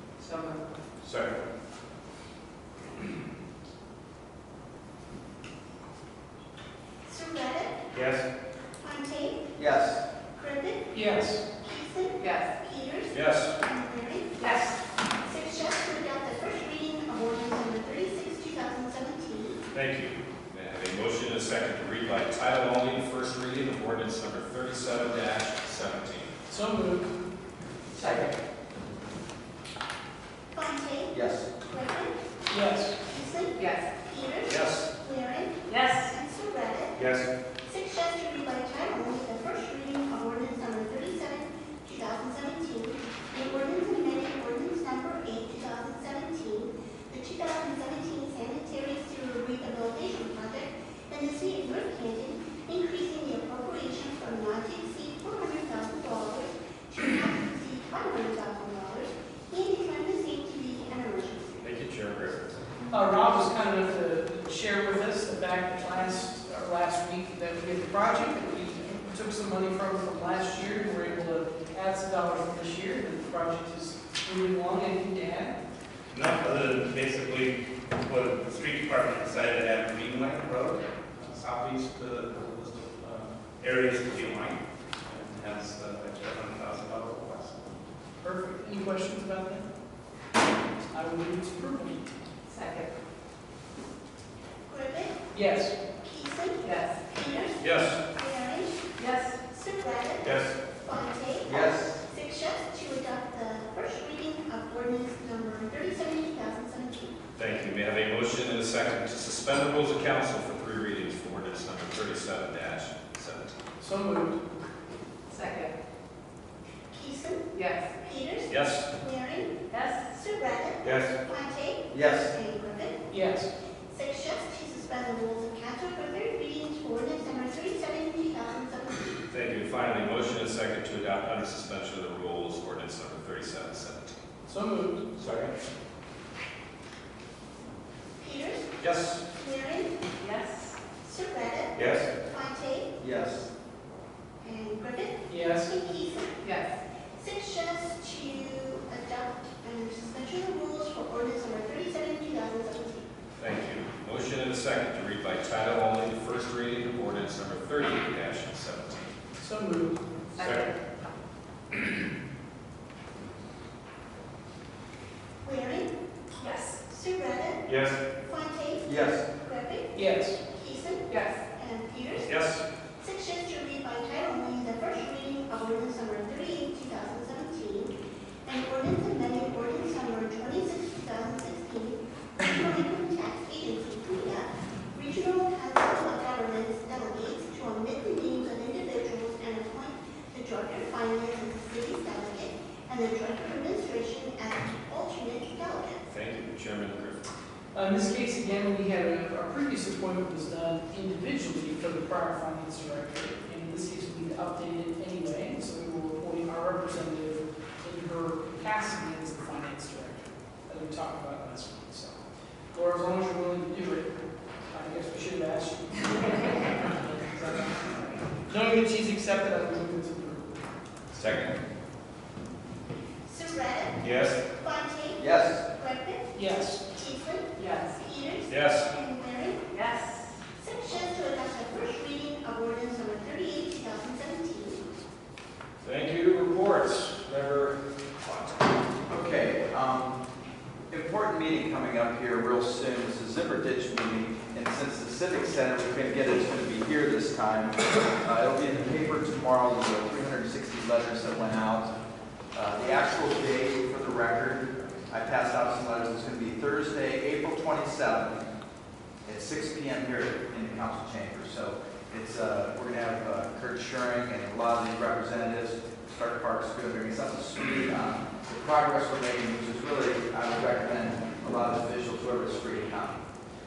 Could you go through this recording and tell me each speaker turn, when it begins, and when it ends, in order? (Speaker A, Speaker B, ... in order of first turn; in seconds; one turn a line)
Speaker A: 0.2-0.6
Speaker B: 1.0-1.3
Speaker C: 7.0-7.8
Speaker B: 7.9-8.2
Speaker C: 8.8-9.5
Speaker D: 9.6-10.0
Speaker C: 10.3-11.0
Speaker E: 10.9-11.4
Speaker C: 11.6-14.4
Speaker A: 12.2-12.5
Speaker B: 13.1-13.5
Speaker A: 14.4-14.8
Speaker C: 15.2-19.6
Speaker B: 19.7-26.3
Speaker E: 26.5-27.1
Speaker C: 30.5-32.1
Speaker D: 31.1-31.5
Speaker E: 32.5-33.0
Speaker C: 33.0-37.1
Speaker A: 33.5-33.8
Speaker B: 34.5-34.9
Speaker A: 35.7-36.1
Speaker B: 37.0-37.3
Speaker C: 37.6-61.6
Speaker B: 61.6-62.5
Speaker E: 62.9-75.6
Speaker F: 76.1-87.6
Speaker E: 88.2-89.6
Speaker E: 90.9-92.1
Speaker A: 92.5-92.9
Speaker C: 94.7-95.2
Speaker E: 95.3-95.7
Speaker C: 96.0-98.9
Speaker A: 96.6-97.0
Speaker B: 97.6-98.0
Speaker A: 99.0-99.4
Speaker C: 99.5-107.2
Speaker B: 100.2-100.5
Speaker D: 101.5-102.0
Speaker B: 107.3-113.5
Speaker E: 113.8-114.4
Speaker A: 115.3-115.7
Speaker C: 116.9-123.1
Speaker A: 117.5-117.9
Speaker B: 118.5-118.8
Speaker A: 119.7-120.0
Speaker B: 120.8-121.1
Speaker D: 121.9-122.3
Speaker E: 123.1-123.5
Speaker C: 123.9-129.2
Speaker B: 129.3-134.2
Speaker E: 134.4-135.1
Speaker B: 135.2-135.5
Speaker C: 138.2-138.7
Speaker B: 138.8-139.2
Speaker C: 139.3-139.9
Speaker A: 140.2-140.8
Speaker C: 141.0-142.9
Speaker B: 141.7-142.1
Speaker D: 143.0-143.5
Speaker C: 144.4-146.4
Speaker E: 145.3-145.7
Speaker A: 146.4-146.7
Speaker C: 147.2-153.1
Speaker B: 153.4-159.1
Speaker E: 159.4-160.1
Speaker A: 160.3-160.8
Speaker B: 160.4-160.7
Speaker C: 165.4-165.9
Speaker A: 166.4-166.8
Speaker C: 166.8-170.0
Speaker B: 167.7-168.0
Speaker D: 168.8-169.2
Speaker E: 169.9-170.4
Speaker C: 170.5-172.3
Speaker A: 171.1-171.4
Speaker B: 172.2-172.6
Speaker C: 173.0-177.9
Speaker C: 178.4-196.0
Speaker B: 196.1-197.2
Speaker E: 197.7-212.2
Speaker E: 212.7-214.1
Speaker E: 214.7-220.6
Speaker B: 221.1-221.6
Speaker C: 223.2-226.4
Speaker B: 224.0-224.4
Speaker D: 225.2-225.6
Speaker E: 226.3-226.9
Speaker C: 226.9-229.6
Speaker A: 227.6-227.9
Speaker B: 228.5-228.9
Speaker A: 229.7-230.3
Speaker C: 230.6-234.9
Speaker B: 235.8-238.4
Speaker D: 239.1-240.2
Speaker D: 240.9-251.9
Speaker D: 252.5-258.4
Speaker D: 259.2-273.2